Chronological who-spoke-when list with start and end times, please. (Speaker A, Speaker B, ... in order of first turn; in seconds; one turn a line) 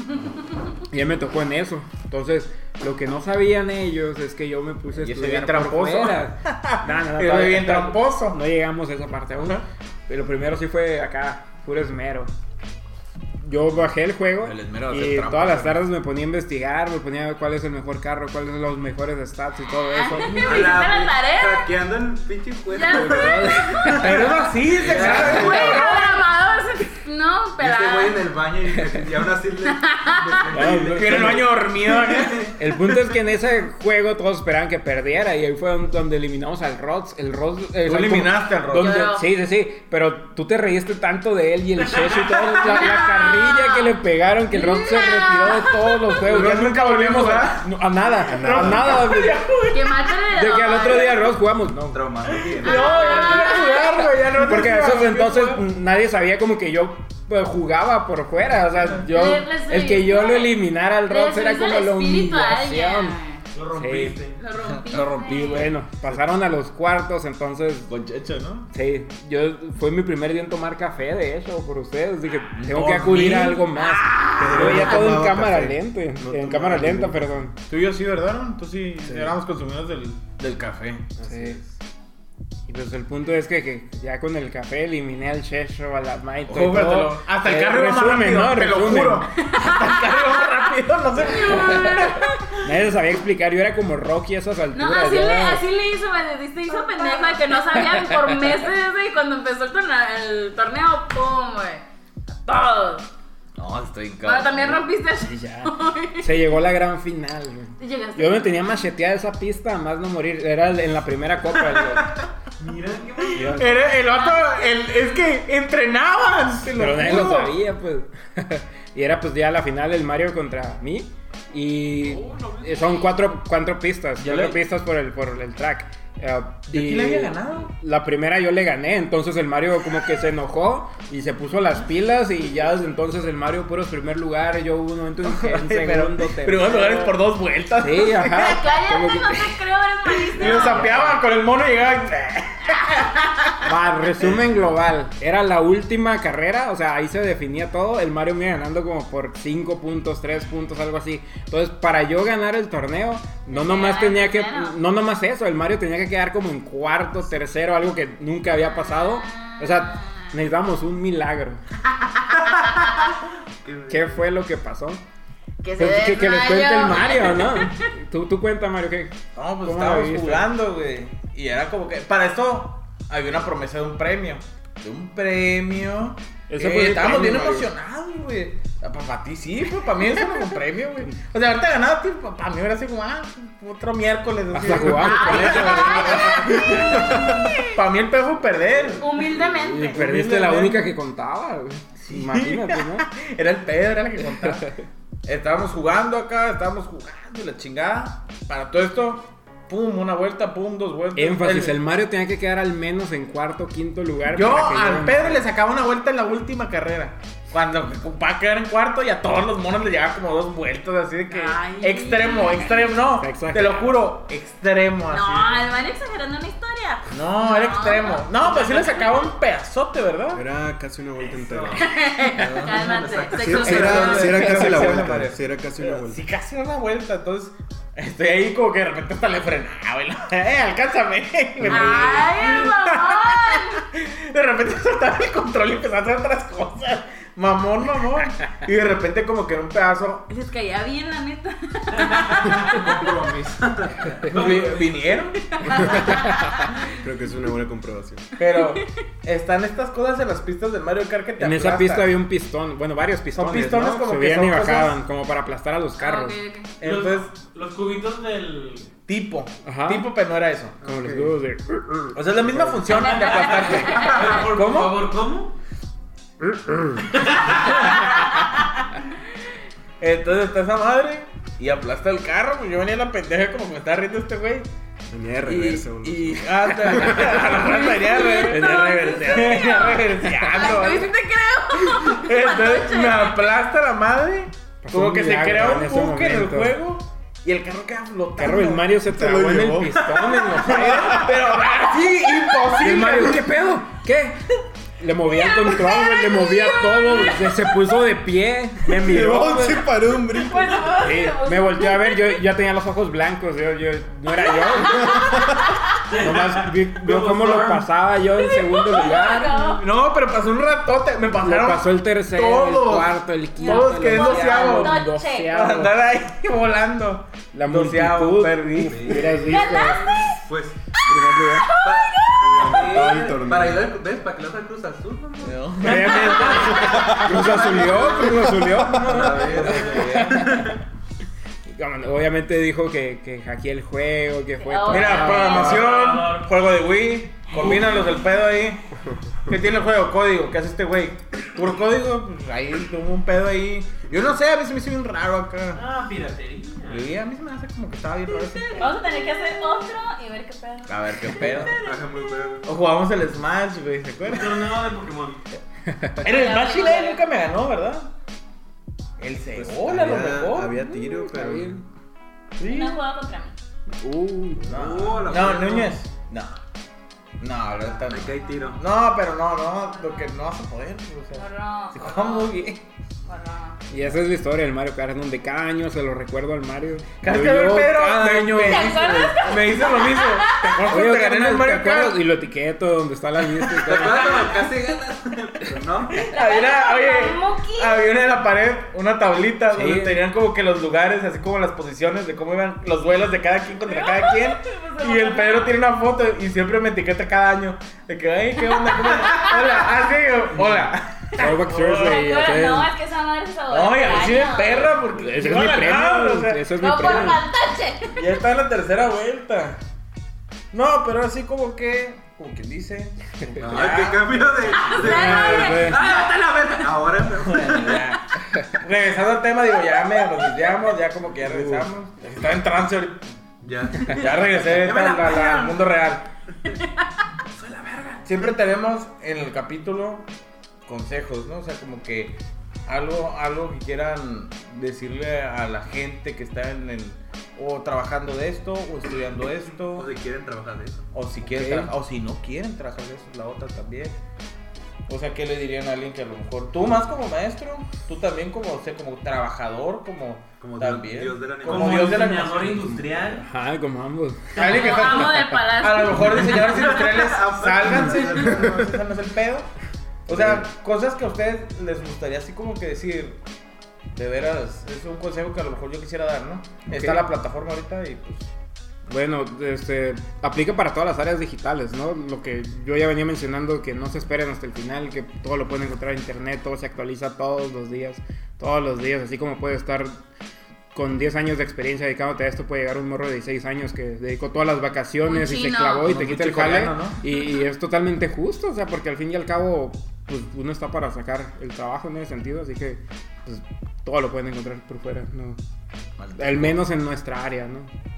Speaker A: 0.9-12.3
Speaker B: 4.9-8.4
Speaker B: 9.4-9.6
Speaker A: 13.4-20.7
Speaker B: 14.4-15.8
Speaker C: 19.8-21.7
Speaker B: 20.1-20.7
Speaker D: 20.4-24.0
Speaker C: 22.7-24.4
Speaker A: 22.9-25.8
Speaker B: 24.0-26.2
Speaker D: 24.7-26.1
Speaker C: 24.9-28.2
Speaker D: 27.6-33.0
Speaker A: 28.7-29.1
Speaker C: 29.6-30.6
Speaker A: 30.5-31.5
Speaker B: 30.9-32.5
Speaker A: 32.5-49.4
Speaker B: 37.8-39.0
Speaker C: 38.7-39.3
Speaker C: 42.5-43.9
Speaker C: 44.5-45.8
Speaker B: 46.2-47.6
Speaker E: 48.3-48.9
Speaker B: 48.3-50.1
Speaker C: 49.7-51.3
Speaker A: 50.3-52.1
Speaker D: 51.9-53.2
Speaker B: 52.3-55.6
Speaker C: 52.6-54.0
Speaker A: 53.2-63.1
Speaker C: 59.0-63.4
Speaker F: 63.5-64.4
Speaker A: 63.7-64.2
Speaker C: 64.4-65.7
Speaker B: 64.6-65.7
Speaker A: 65.3-67.9
Speaker B: 67.9-68.7
Speaker A: 68.7-77.5
Speaker B: 72.5-75.2
Speaker E: 74.4-77.4
Speaker B: 77.7-81.1
Speaker E: 81.2-81.6
Speaker A: 81.2-81.6
Speaker A: 82.7-89.3
Speaker B: 86.5-92.3
Speaker C: 89.4-90.5
Speaker C: 91.2-92.5
Speaker A: 91.3-92.0
Speaker A: 92.6-95.6
Speaker C: 94.7-103.1
Speaker A: 97.8-98.1
Speaker B: 103.6-104.8
Speaker C: 104.2-106.4
Speaker A: 105.2-112.2
Speaker C: 107.8-108.7
Speaker F: 112.6-113.6
Speaker B: 113.3-117.5
Speaker A: 113.3-113.8
Speaker C: 114.0-114.9
Speaker A: 116.6-137.2
Speaker F: 122.0-123.1
Speaker B: 124.2-124.6
Speaker B: 126.7-127.7
Speaker B: 135.2-138.6
Speaker A: 137.8-139.6
Speaker C: 138.4-141.0
Speaker B: 140.2-143.5
Speaker A: 140.4-141.2
Speaker C: 142.7-143.1
Speaker A: 143.6-161.6
Speaker C: 153.5-154.8
Speaker C: 158.6-160.3
Speaker C: 161.9-163.1
Speaker D: 163.6-164.2
Speaker A: 163.9-165.0
Speaker C: 165.6-167.9
Speaker A: 165.8-170.5
Speaker B: 169.3-189.4
Speaker A: 176.5-177.7
Speaker A: 184.5-187.3
Speaker C: 184.8-187.8
Speaker C: 189.0-190.0
Speaker A: 189.4-193.1
Speaker B: 189.9-190.8
Speaker B: 192.1-194.7
Speaker A: 194.5-194.8
Speaker B: 195.2-201.8
Speaker A: 201.1-205.4
Speaker B: 204.3-215.7
Speaker C: 211.3-212.9
Speaker A: 213.1-214.0
Speaker C: 215.1-219.3
Speaker B: 217.1-220.4
Speaker E: 220.3-221.9
Speaker D: 221.3-221.8
Speaker C: 221.7-224.5
Speaker B: 222.3-240.3
Speaker D: 222.6-224.9
Speaker E: 223.3-226.2
Speaker C: 231.6-233.8
Speaker C: 240.3-242.9
Speaker F: 241.9-243.5
Speaker D: 242.8-244.1
Speaker F: 244.1-245.3
Speaker B: 244.2-246.1
Speaker C: 245.4-247.0
Speaker E: 246.9-248.3
Speaker B: 248.4-252.1
Speaker C: 248.5-248.9
Speaker A: 251.4-256.4
Speaker B: 253.3-255.0
Speaker C: 256.0-256.8
Speaker B: 256.8-257.3
Speaker F: 256.8-258.9
Speaker B: 259.1-260.8
Speaker A: 259.6-260.1
Speaker A: 260.8-261.9
Speaker E: 260.8-261.3
Speaker E: 261.9-262.8
Speaker B: 262.1-265.0
Speaker C: 263.1-264.3
Speaker F: 263.1-265.5
Speaker E: 266.5-267.0
Speaker F: 267.1-268.0
Speaker C: 268.1-268.4
Speaker B: 270.0-274.7
Speaker E: 275.1-277.4
Speaker B: 275.4-281.1
Speaker C: 277.4-283.4
Speaker A: 278.4-279.8
Speaker B: 281.8-288.9
Speaker A: 284.8-286.8
Speaker A: 288.4-291.3
Speaker E: 289.1-291.4
Speaker B: 290.6-293.6
Speaker A: 292.8-294.4
Speaker A: 295.0-299.9
Speaker C: 295.3-297.7
Speaker E: 298.9-301.0
Speaker C: 300.1-302.4
Speaker A: 301.0-305.4
Speaker C: 304.4-306.1
Speaker F: 306.1-307.9
Speaker A: 306.1-309.5
Speaker C: 308.3-309.9
Speaker B: 309.5-319.8
Speaker A: 311.4-315.9
Speaker C: 313.6-315.6
Speaker A: 317.5-320.2
Speaker D: 318.9-319.4
Speaker C: 319.5-320.4
Speaker D: 320.4-320.8
Speaker A: 321.1-321.7
Speaker C: 321.4-322.4
Speaker D: 321.8-330.8
Speaker E: 322.4-324.0
Speaker B: 325.4-327.1
Speaker A: 325.8-330.7
Speaker E: 326.7-329.9
Speaker B: 329.2-330.6
Speaker A: 331.7-335.9
Speaker C: 334.6-335.8
Speaker B: 334.9-338.8
Speaker F: 335.5-336.5
Speaker B: 339.5-345.8
Speaker F: 345.7-347.1
Speaker B: 346.9-349.0
Speaker C: 348.3-351.9
Speaker B: 350.9-351.8
Speaker D: 351.6-352.7
Speaker B: 352.6-354.8
Speaker F: 354.2-355.4
Speaker B: 356.2-358.1
Speaker C: 356.2-357.2
Speaker B: 359.2-360.8
Speaker E: 359.5-361.8
Speaker A: 360.7-361.8
Speaker C: 362.6-363.5
Speaker B: 362.6-363.0
Speaker A: 364.0-364.9
Speaker B: 364.6-366.6
Speaker D: 364.7-365.9
Speaker B: 367.4-372.8
Speaker D: 368.1-368.8
Speaker C: 368.3-368.7
Speaker C: 369.9-370.3
Speaker C: 371.3-372.6
Speaker C: 373.2-373.8
Speaker A: 373.9-379.4
Speaker B: 377.2-382.2
Speaker C: 378.6-380.9
Speaker A: 380.9-384.5
Speaker D: 383.8-386.3
Speaker B: 386.1-402.2
Speaker C: 386.2-388.1
Speaker A: 389.7-390.2
Speaker C: 393.8-395.8
Speaker C: 398.6-399.9
Speaker A: 401.4-402.9
Speaker C: 401.5-404.9
Speaker B: 403.7-407.3
Speaker A: 405.0-407.5
Speaker C: 406.7-408.2
Speaker B: 408.1-409.8
Speaker B: 410.7-415.8
Speaker D: 413.6-418.1
Speaker C: 414.6-416.3
Speaker A: 415.0-416.0
Speaker F: 416.0-416.6
Speaker B: 417.3-423.2
Speaker A: 421.4-421.9
Speaker D: 423.6-425.6
Speaker B: 424.0-426.3
Speaker F: 424.9-425.7
Speaker F: 427.7-428.2
Speaker B: 428.2-430.3
Speaker B: 430.9-440.1
Speaker D: 439.9-441.1
Speaker B: 441.1-444.2
Speaker A: 441.4-441.9
Speaker B: 445.1-452.9
Speaker D: 450.6-452.2
Speaker F: 451.6-453.4
Speaker A: 453.2-455.5
Speaker B: 454.6-459.7
Speaker C: 454.6-456.7
Speaker D: 456.5-458.9
Speaker B: 460.3-463.4
Speaker A: 460.3-460.6
Speaker B: 464.1-468.5
Speaker A: 466.9-467.3
Speaker A: 469.1-480.2
Speaker A: 480.9-495.6
Speaker C: 485.2-486.1
Speaker B: 486.0-487.2
Speaker B: 496.2-496.8
Speaker A: 496.3-497.9